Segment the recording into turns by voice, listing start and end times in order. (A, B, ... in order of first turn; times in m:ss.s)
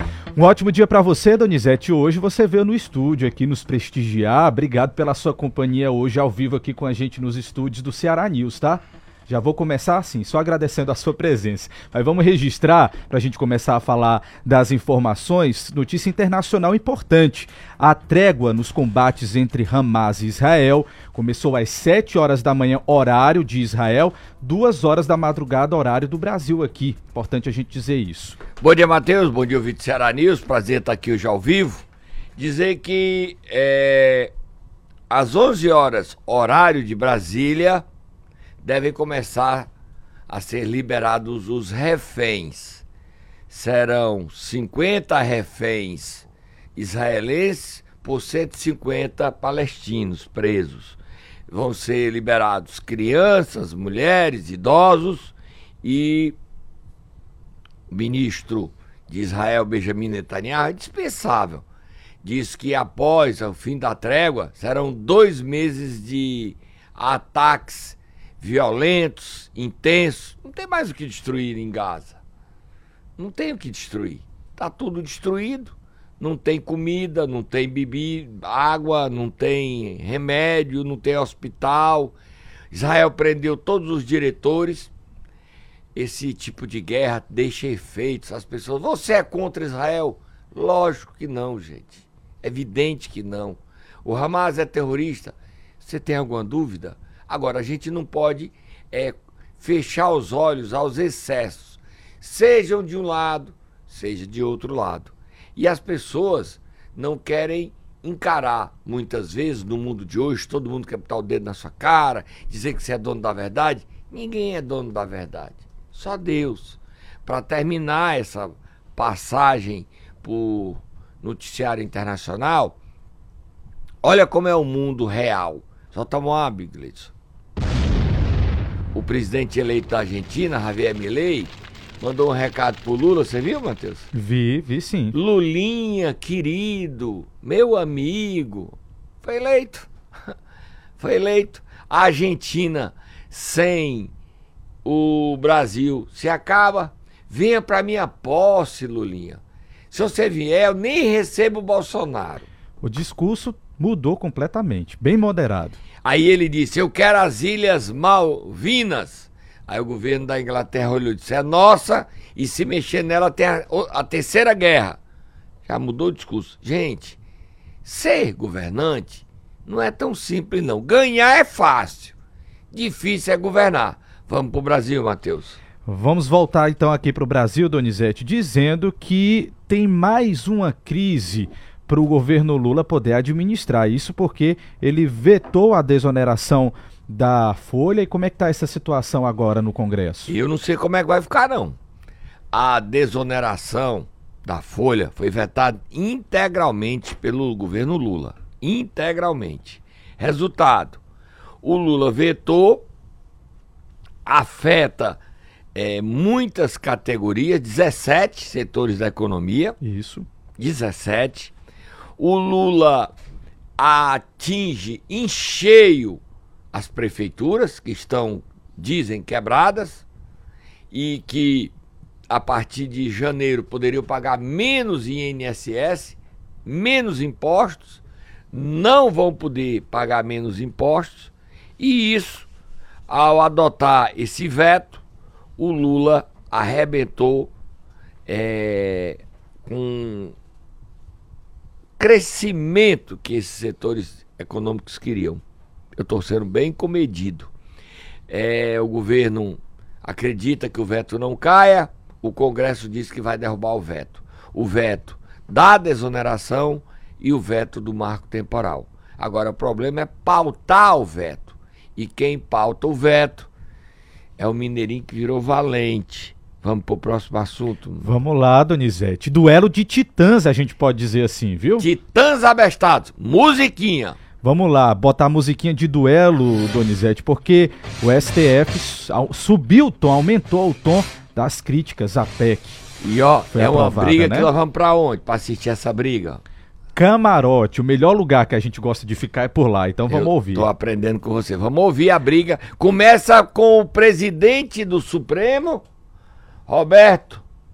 0:00.4-0:28.4 A
0:28.6-0:31.9 B
0:32.4-0:34.3 B
0:35.1-0:37.9 B
0:38.6-0:39.7 B
0:40.3-0:42.8 B
0:43.5-0:56.4 B
0:57.9-1:01.6 B
1:02.2-1:12.2 B
1:13.2-1:22.2 B
1:22.7-1:24.9 B
1:26.0-2:02.8 B
2:04.0-2:07.1 B
2:08.9-2:14.1 B
2:14.1-2:15.1 A
2:15.1-2:19.9 B
2:21.0-2:24.1 B
2:24.8-2:29.4 B
2:29.9-2:32.5 B
2:32.8-2:35.8 A
2:36.0-2:45.0 B
2:45.6-2:47.2 B
2:47.8-2:52.2 B
2:52.7-2:55.6 B
2:55.8-3:10.3 A
3:10.3-3:11.8 B
3:12.5-3:21.0 B
3:21.6-3:22.9 B
3:24.3-3:25.2 B
3:25.8-3:29.8 B
3:29.8-3:30.3 A
3:30.6-3:31.5 B
3:32.2-3:33.1 B
3:33.8-3:36.2 B
3:36.7-3:40.0 B
3:40.9-3:41.7 B
3:42.3-3:48.0 B
3:48.5-3:52.5 B
3:53.1-3:55.0 B
3:55.6-3:57.5 B
3:58.3-4:00.3 B
4:02.0-4:05.4 B
4:06.0-4:07.5 B
4:08.3-4:23.5 B
4:24.4-4:28.1 B
4:28.0-4:31.9 A
4:31.8-4:34.2 B
4:34.4-4:42.8 A
4:43.0-4:46.4 B
4:43.5-4:44.5 A
4:47.0-4:50.7 A
4:50.1-4:55.8 B
4:56.7-4:57.4 B